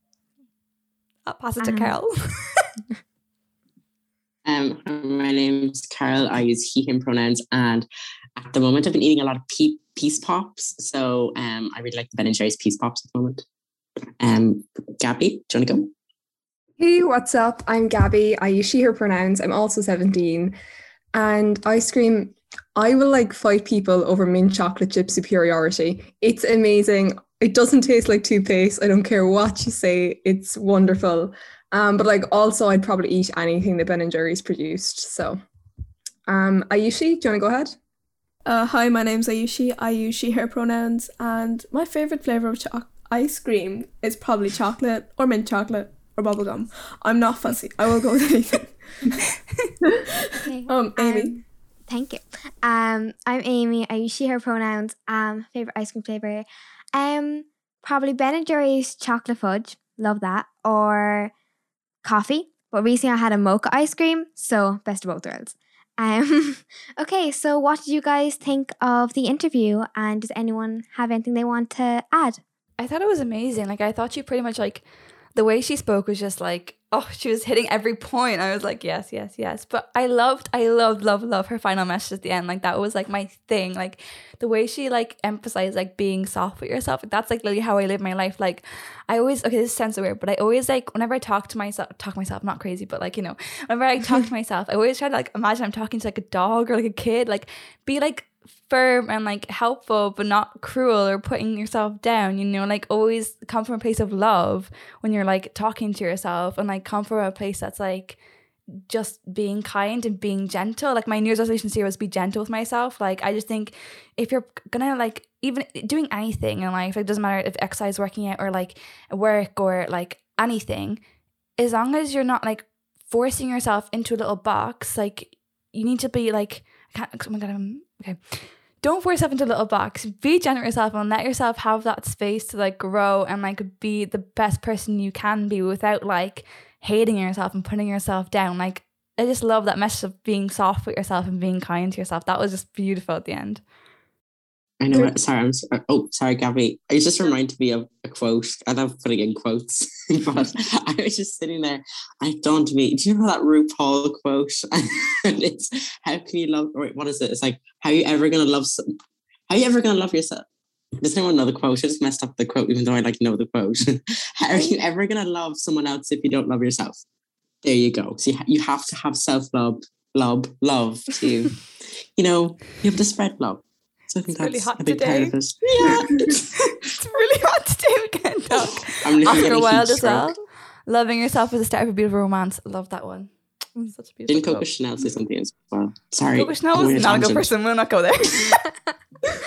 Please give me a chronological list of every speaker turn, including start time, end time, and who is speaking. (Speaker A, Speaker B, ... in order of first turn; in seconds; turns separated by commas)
Speaker A: 1.3-2.7, Speaker B: 1.6-1.9, Speaker C: 4.5-13.4, Speaker C: 14.2-15.9, Speaker D: 16.8-20.5, Speaker D: 21.1-35.4, Speaker D: 36.3-37.8, Speaker E: 38.5-48.7, Speaker B: 50.4-61.3, Speaker D: 50.7-51.4, Speaker B: 62.0-72.4, Speaker A: 72.8-74.8, Speaker A: 75.3-108.2, Speaker A: 108.7-121.0, Speaker A: 121.6-143.6, Speaker C: 144.8-158.8, Speaker C: 159.5-160.5, Speaker C: 161.0-167.0, Speaker C: 167.6-171.6, Speaker C: 172.2-176.8, Speaker A: 174.4-184.7, Speaker C: 178.6-180.3, Speaker C: 184.3-187.5, Speaker A: 186.4-188.7